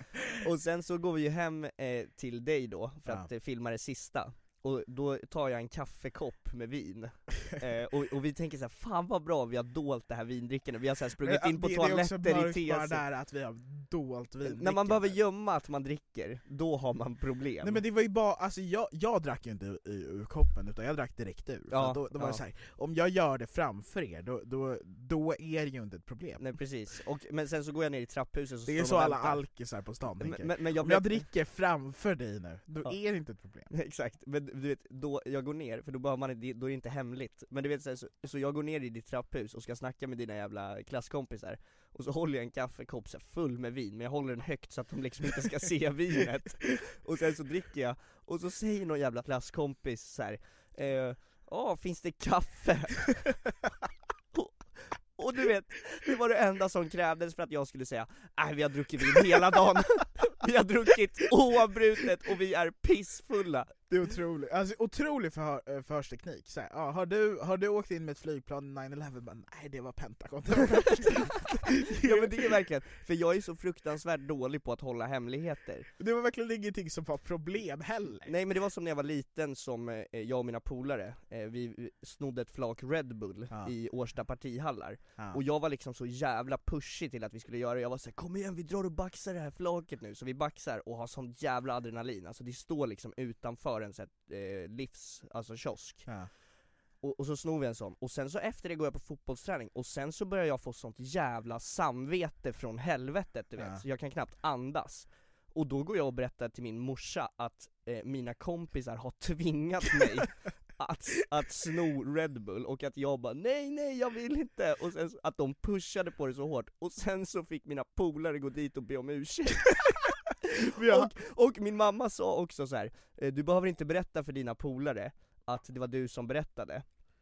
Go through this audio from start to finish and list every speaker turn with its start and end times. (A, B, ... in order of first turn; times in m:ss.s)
0:00.3-0:13.0 A
0:11.2-0:15.2 B
0:14.4-0:17.8 A
0:17.6-0:26.4 B
0:21.7-0:22.4 A
0:26.4-0:29.4 A
0:28.6-0:33.7 B
0:30.2-0:31.2 A
0:33.7-0:53.4 A
0:55.1-1:03.7 A
1:03.9-1:12.5 B
1:10.7-1:11.0 A
1:11.9-1:15.9 A
1:16.0-1:18.3 B
1:18.2-1:36.1 A
1:37.0-1:59.9 A
2:00.6-2:01.1 B
2:00.7-2:06.8 A